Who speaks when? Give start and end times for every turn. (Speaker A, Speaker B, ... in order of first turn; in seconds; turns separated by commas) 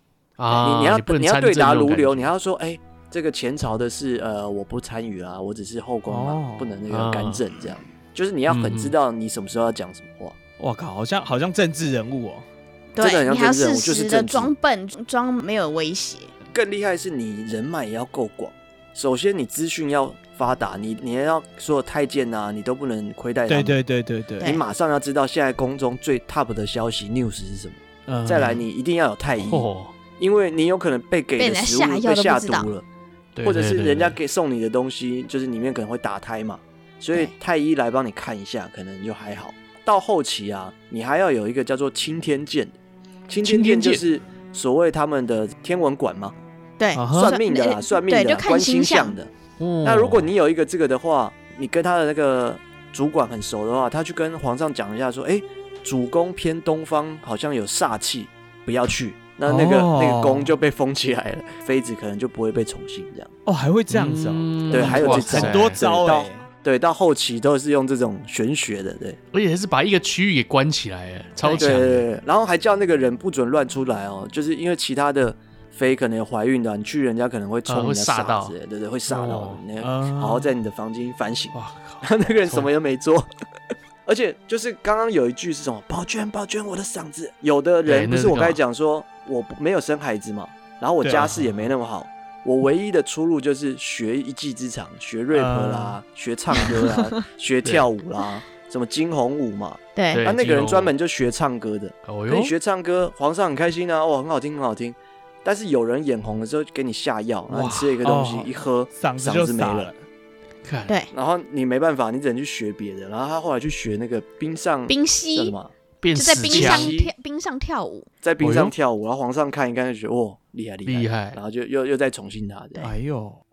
Speaker A: 0.4-2.3, Speaker B: 0.5-10.4, Speaker C: 6.1-6.7, Speaker A: 6.9-7.4, Speaker A: 8.5-8.9, Speaker C: 10.6-12.5, Speaker D: 12.9-16.3, Speaker B: 13.0-14.5, Speaker B: 16.5-23.8, Speaker C: 23.5-24.6, Speaker B: 24.4-32.9, Speaker A: 28.1-28.6, Speaker A: 29.4-29.9, Speaker D: 31.4-32.7, Speaker A: 33.4-34.2, Speaker B: 33.4-42.8, Speaker B: 43.3-46.3, Speaker A: 43.4-44.0, Speaker D: 46.8-49.2, Speaker C: 46.9-47.3, Speaker B: 47.1-49.3, Speaker A: 49.6-50.3, Speaker B: 49.8-63.3, Speaker C: 59.5-60.5, Speaker C: 63.5-66.5, Speaker A: 63.9-65.8, Speaker B: 64.7-69.2, Speaker A: 69.3-72.0, Speaker D: 71.4-71.7, Speaker B: 71.6-83.3, Speaker A: 77.7-78.5, Speaker A: 79.1-79.6, Speaker C: 79.8-80.5, Speaker A: 81.5-82.7, Speaker B: 84.1-109.9, Speaker A: 87.8-88.6, Speaker C: 91.0-91.4, Speaker C: 95.3-96.0, Speaker D: 100.0-100.2, Speaker A: 100.1-100.9, Speaker A: 102.1-102.5, Speaker A: 107.5-108.0, Speaker C: 108.0-110.0, Speaker A: 110.6-111.0, Speaker B: 111.1-115.7, Speaker D: 114.9-115.5, Speaker A: 116.0-116.9, Speaker D: 116.2-118.1, Speaker B: 116.5-117.1, Speaker B: 118.2-122.9, Speaker A: 118.4-118.7, Speaker A: 120.9-121.4, Speaker C: 122.8-123.4